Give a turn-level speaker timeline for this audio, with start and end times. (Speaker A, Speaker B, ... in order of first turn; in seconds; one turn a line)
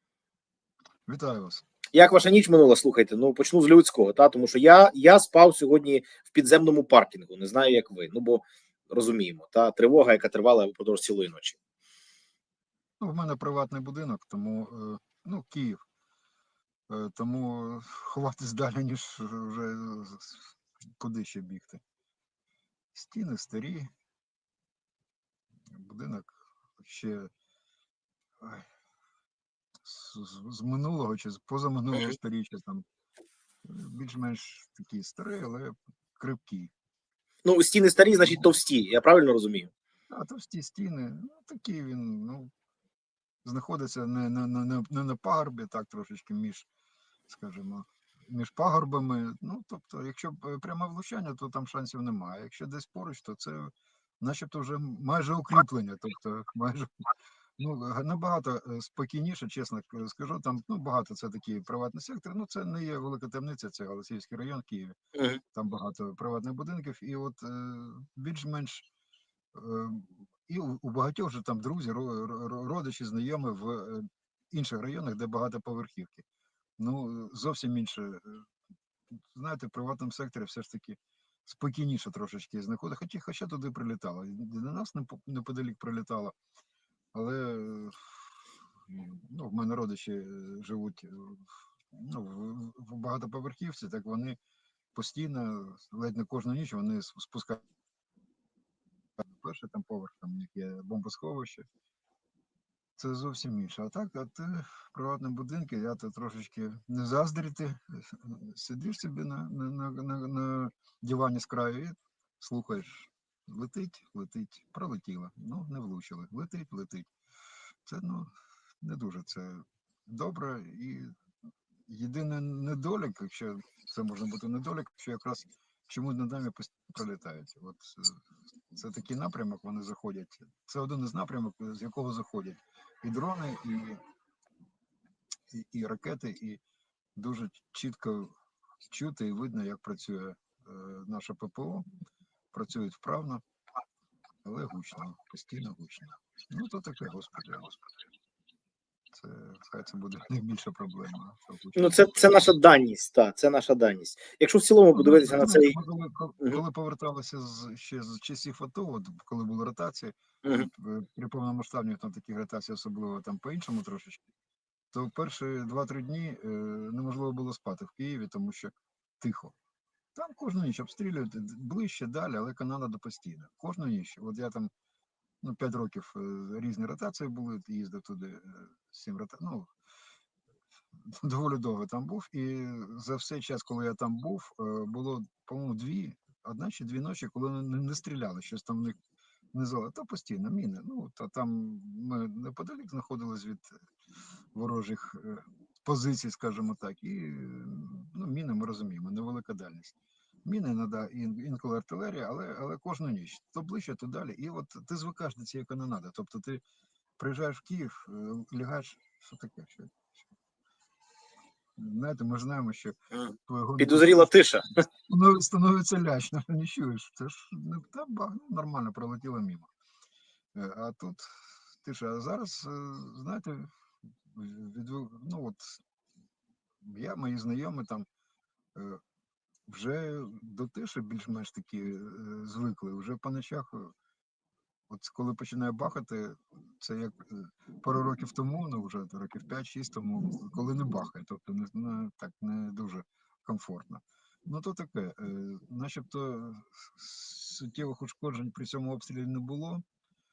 Speaker A: 1.1-1.6
Speaker B: 1.9-11.6
Speaker A: 13.0-15.8
Speaker A: 16.9-21.8
Speaker A: 22.9-23.9
Speaker A: 25.7-27.3
Speaker A: 28.4-28.7
Speaker A: 29.8-32.9
Speaker A: 33.6-36.7
Speaker B: 37.5-39.7
Speaker A: 38.2-38.5
Speaker A: 40.1-42.5
Speaker A: 43.4-46.7
Speaker A: 47.3-57.0
Speaker A: 57.6-65.0
Speaker B: 65.1-65.4
Speaker A: 65.5-68.9
Speaker A: 69.5-76.2
Speaker A: 76.8-78.5
Speaker A: 79.1-86.3
Speaker A: 87.1-88.2
Speaker A: 88.9-94.4
Speaker A: 94.9-97.6
Speaker A: 99.2-101.7
Speaker A: 103.0-117.1
Speaker A: 117.9-118.3
Speaker A: 118.8-121.2
Speaker A: 121.9-134.0
Speaker A: 135.5-136.6
Speaker A: 137.2-138.3
Speaker A: 138.9-141.8
Speaker A: 142.5-143.4
Speaker A: 144.4-147.8
Speaker A: 149.1-152.5
Speaker B: 151.8-155.8
Speaker A: 154.9-164.2
Speaker B: 160.4-160.7
Speaker A: 164.9-169.6
Speaker A: 170.2-174.7
Speaker A: 175.4-179.7
Speaker A: 181.0-189.0
Speaker A: 189.5-193.7
Speaker A: 194.5-206.6
Speaker A: 207.2-210.3
Speaker A: 211.8-213.0
Speaker B: 213.1-214.8
Speaker A: 213.5-214.3
Speaker A: 214.9-219.7
Speaker A: 220.6-223.7
Speaker A: 224.2-225.8
Speaker A: 226.8-228.1
Speaker A: 228.8-229.0
Speaker A: 229.7-233.9
Speaker A: 234.9-249.8